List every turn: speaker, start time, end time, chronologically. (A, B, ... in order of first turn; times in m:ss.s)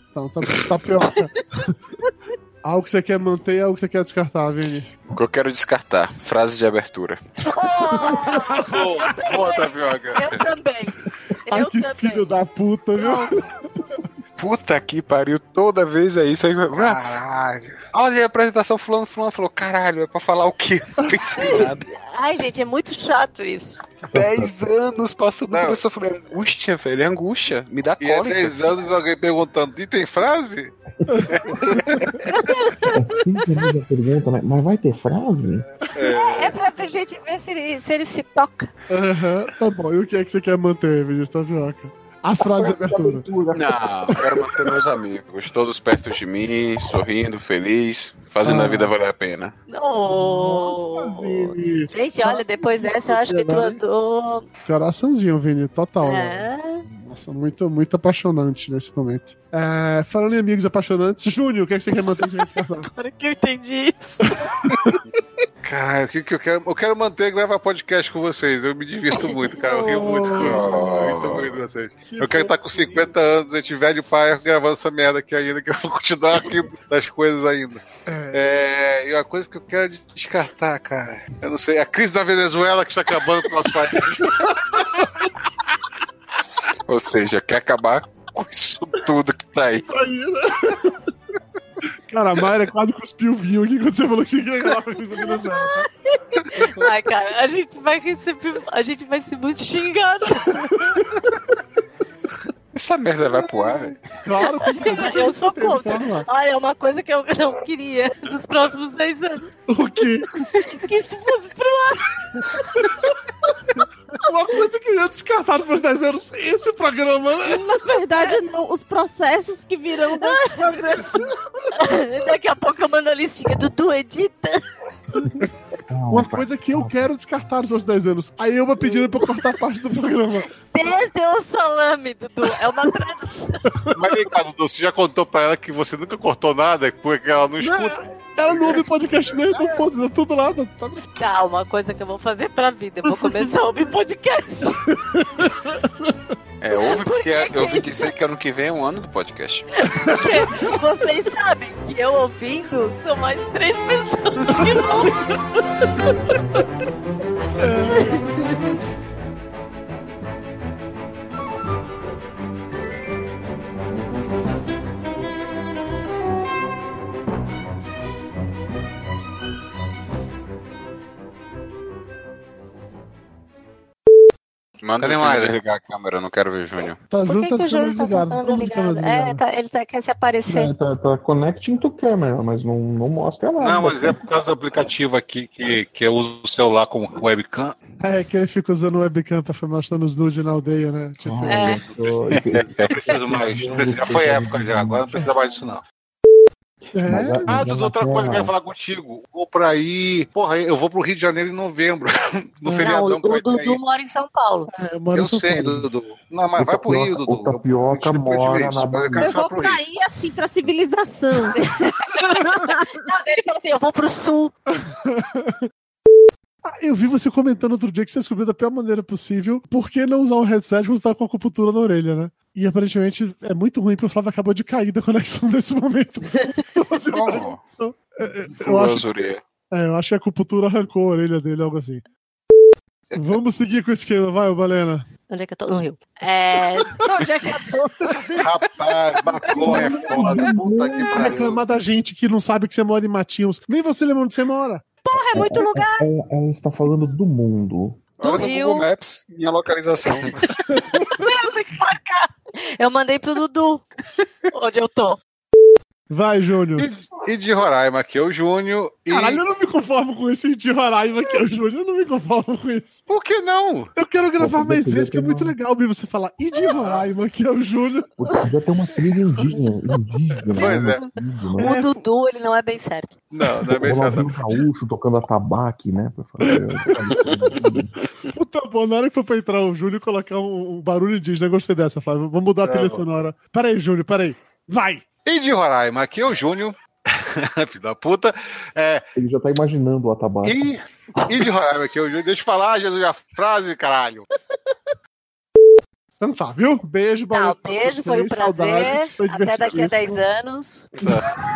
0:00.1-0:01.7 A
0:02.6-0:04.9 A
0:05.1-0:07.2 B
0:07.4-0:12.3 C
0:08.0-0:08.7 A
0:08.6-0:10.4 D
0:11.5-0:13.8 A
0:13.0-0:13.3 C
0:14.4-0:17.0 B
0:16.8-0:17.8 D
0:17.9-0:21.8 B
0:21.4-0:23.8 C
0:24.1-0:24.5 E
0:24.1-0:28.8 B
0:25.5-0:25.8 D
0:28.0-0:30.7 D
0:31.1-0:32.2 A
0:32.3-0:32.9 C
0:32.9-0:35.6 E
0:35.9-0:36.6 D
0:36.0-0:38.7 C
0:38.9-0:43.2 A
0:42.4-0:44.3 E
0:43.5-0:49.5 B
0:48.4-0:48.9 A
0:49.7-0:51.2 C
0:50.1-0:53.8 A
0:51.9-0:54.4 C
0:54.6-1:02.9 A
0:56.0-0:56.8 C
1:02.8-1:04.4 C
1:05.6-1:24.6 D
1:09.6-1:10.7 A
1:10.4-1:11.6 B
1:12.1-1:13.1 A
1:18.1-1:18.6 A
1:24.0-1:25.0 A
1:26.9-1:29.9 B
1:29.9-1:31.0 A
1:32.1-1:35.9 A
1:35.3-1:35.6 C
1:36.3-1:41.0 C
1:42.7-1:44.0 B
1:43.6-1:46.3 A
1:44.6-1:49.5 C
1:49.7-1:50.3 A
1:50.5-1:52.9 C
1:54.2-1:57.6 A
1:57.5-2:01.0 F
1:58.1-1:58.4 C
2:00.1-2:01.0 C
2:01.7-2:04.6 C
2:05.9-2:07.0 E
2:06.1-2:10.5 A
2:10.7-2:13.6 C
2:13.9-2:18.9 D
2:17.6-2:21.0 A
2:21.2-2:24.9 C
2:25.2-2:26.1 A
2:26.6-2:29.6 B
2:26.7-2:27.9 C
2:29.8-2:35.2 C
2:37.6-2:38.1 A
2:37.9-2:38.2 C
2:54.8-2:57.0 B
2:55.0-2:55.5 D
2:57.1-2:59.4 A
2:57.2-3:00.7 C
3:00.4-3:04.2 E
3:03.6-3:07.8 D
3:08.0-3:11.8 A
3:11.2-3:15.4 E
3:11.5-3:11.8 C
3:12.3-3:15.8 D
3:16.9-3:17.6 A
3:17.0-3:18.5 E
3:17.5-3:23.8 D
3:22.7-3:23.0 A
3:22.7-3:24.7 C
3:24.7-3:25.9 A
3:25.1-3:29.8 D
3:26.6-3:29.3 E
3:29.1-3:31.6 F
3:31.5-3:34.5 C
3:34.8-3:35.6 A
3:36.6-3:49.0 A
3:47.1-3:47.6 B
3:48.6-3:49.4 B
3:49.7-3:52.0 A
3:53.1-3:55.0 A
3:55.3-3:58.2 C
3:58.0-3:58.4 A
3:58.3-4:01.6 D
3:59.5-4:01.4 E
3:59.5-4:04.8 A
3:59.7-4:00.2 C
4:05.0-4:06.1 C
4:05.3-4:08.0 E
4:08.2-4:10.4 B
4:08.2-4:08.8 C
4:11.1-4:13.8 C
4:14.5-4:15.2 C
4:16.1-4:16.9 A
4:16.8-4:19.4 D
4:19.1-4:23.0 A
4:23.1-4:23.9 D
4:24.0-4:28.1 A
4:24.4-4:25.6 E
4:28.2-4:31.8 E
4:30.5-4:31.0 D
4:30.6-4:33.1 C
4:31.6-4:32.0 A
4:33.3-4:34.4 D
4:33.7-4:37.9 E
4:38.3-4:45.0 A
4:42.6-4:43.0 D
4:45.2-4:49.0 D
4:49.1-4:50.6 E
4:50.4-4:54.2 D
4:56.2-5:00.2 A
4:57.3-5:00.9 C
5:01.0-5:01.3 B